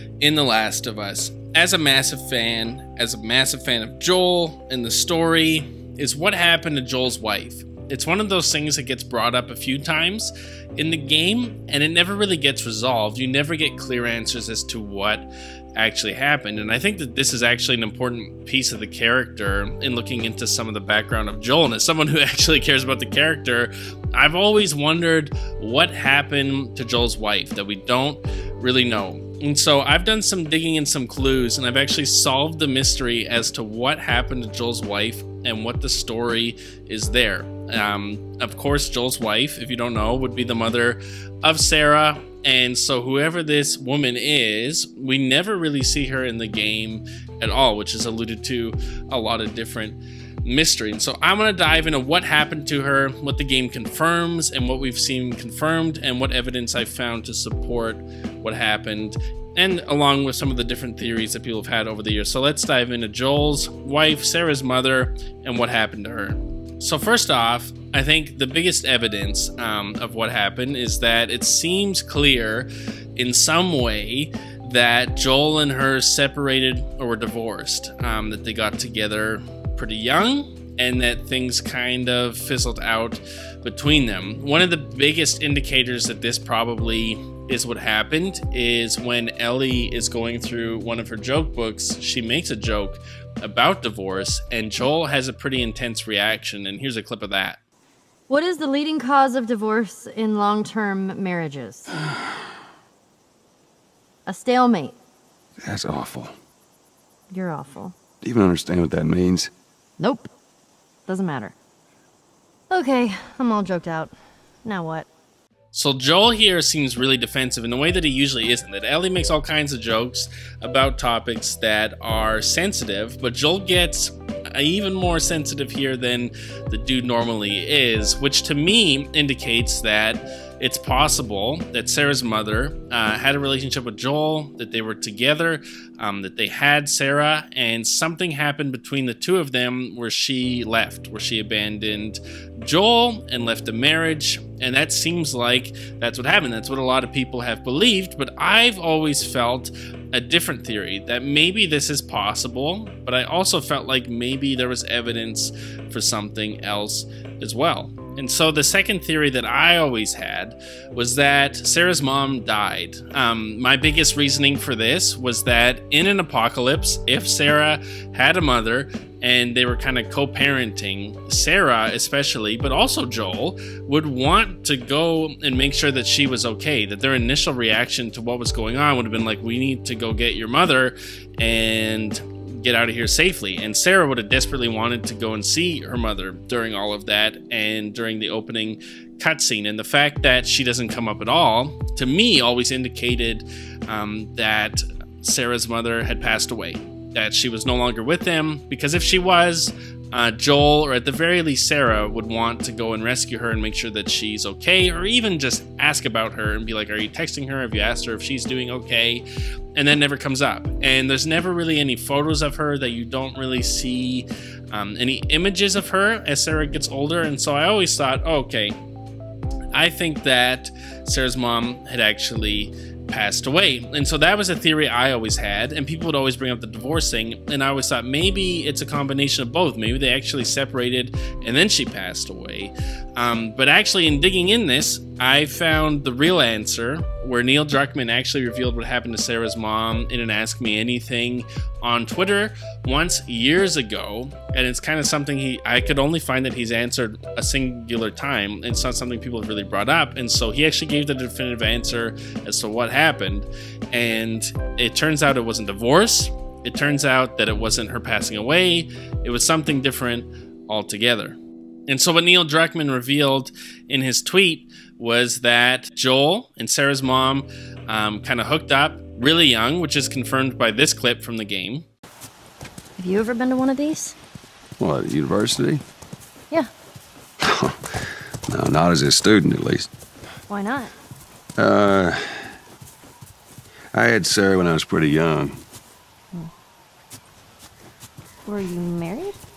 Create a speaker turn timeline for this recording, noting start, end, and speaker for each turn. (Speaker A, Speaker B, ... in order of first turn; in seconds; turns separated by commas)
Speaker A: 0.2-97.6, Speaker B: 98.3-101.9, Speaker B: 104.2-105.0, Speaker C: 105.6-106.3, Speaker B: 107.3-107.9, Speaker C: 108.2-109.5, Speaker B: 110.0-110.3, Speaker B: 111.1-111.5, Speaker B: 112.7-114.1, Speaker B: 114.6-115.1, Speaker A: 115.7-218.8, Speaker A: 219.7-271.8, Speaker B: 273.0-274.1, Speaker C: 274.8-275.8, Speaker C: 277.4-277.8, Speaker C: 278.5-279.9, Speaker B: 280.5-280.9, Speaker C: 281.6-282.5, Speaker C: 283.9-285.6, Speaker B: 288.4-289.4